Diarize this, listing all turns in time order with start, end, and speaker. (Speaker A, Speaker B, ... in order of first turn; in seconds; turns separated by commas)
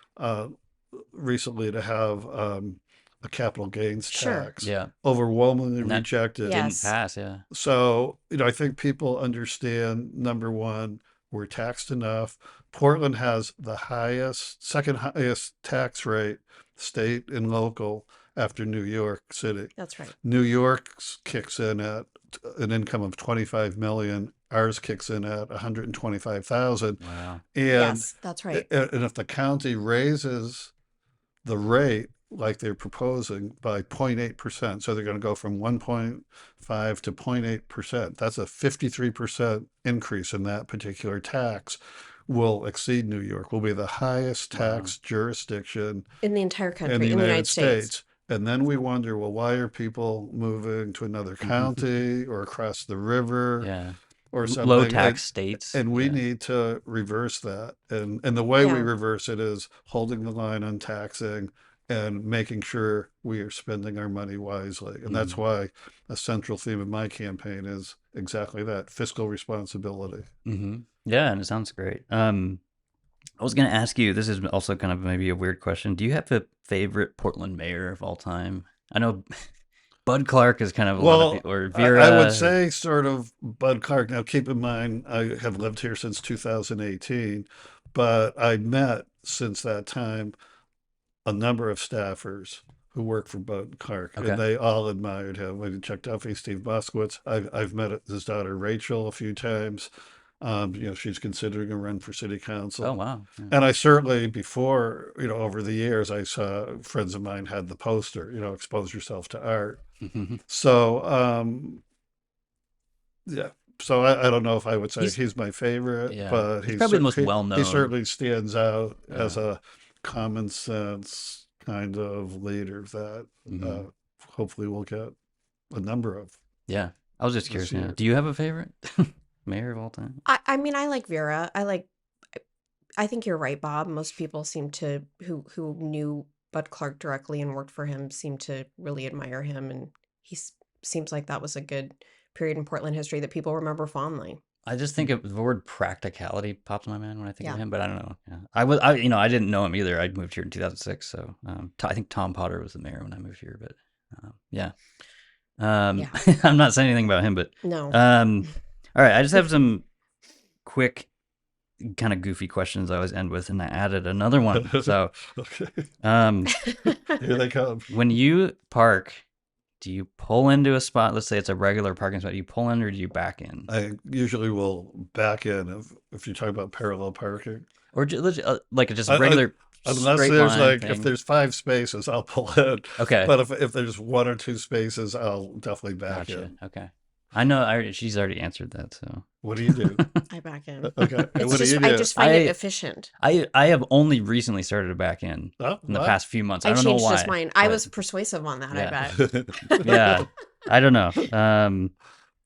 Speaker A: 0.2-0.5, Speaker A: 1.1-6.7, Speaker B: 4.1-4.5, Speaker C: 4.6-4.9, Speaker C: 5.8-7.4, Speaker B: 6.4-6.9, Speaker A: 7.5-27.0, Speaker B: 19.8-20.1, Speaker C: 27.0-27.4, Speaker A: 27.5-30.7, Speaker B: 27.7-28.7, Speaker A: 31.4-46.0, Speaker C: 44.5-44.9, Speaker B: 46.2-47.9, Speaker A: 46.9-53.7, Speaker C: 51.4-51.8, Speaker C: 53.6-56.2, Speaker A: 54.3-70.3, Speaker B: 58.6-58.9, Speaker C: 65.1-65.4, Speaker C: 70.4-72.6, Speaker C: 73.4-79.5, Speaker C: 80.1-82.6, Speaker A: 81.0-90.3, Speaker A: 91.2-99.9, Speaker C: 94.2-94.4, Speaker A: 100.4-102.9, Speaker C: 102.8-103.5, Speaker A: 103.5-109.8, Speaker C: 110.0-110.4, Speaker A: 110.5-111.8, Speaker A: 113.3-125.1, Speaker C: 116.1-117.9, Speaker C: 119.1-119.4, Speaker C: 123.5-123.8, Speaker A: 125.7-126.3, Speaker C: 126.7-130.2, Speaker A: 127.5-128.0, Speaker B: 130.2-131.9, Speaker B: 133.0-144.4, Speaker C: 144.7-154.7, Speaker C: 155.6-159.8, Speaker B: 157.6-158.0, Speaker C: 160.6-161.1, Speaker C: 161.8-165.1, Speaker A: 164.5-165.9, Speaker C: 166.0-166.6, Speaker B: 166.7-166.9, Speaker A: 167.1-167.9, Speaker C: 167.9-169.2, Speaker C: 169.8-173.7, Speaker A: 173.7-177.7, Speaker C: 177.9-181.1, Speaker A: 179.1-186.5, Speaker C: 183.0-183.3, Speaker C: 186.1-190.2, Speaker A: 189.4-190.0, Speaker B: 190.3-193.1, Speaker A: 190.8-192.1, Speaker C: 191.0-192.6, Speaker C: 193.2-197.9, Speaker A: 195.6-196.2, Speaker B: 196.6-200.1, Speaker C: 198.7-199.0, Speaker A: 199.1-200.2, Speaker C: 199.7-201.9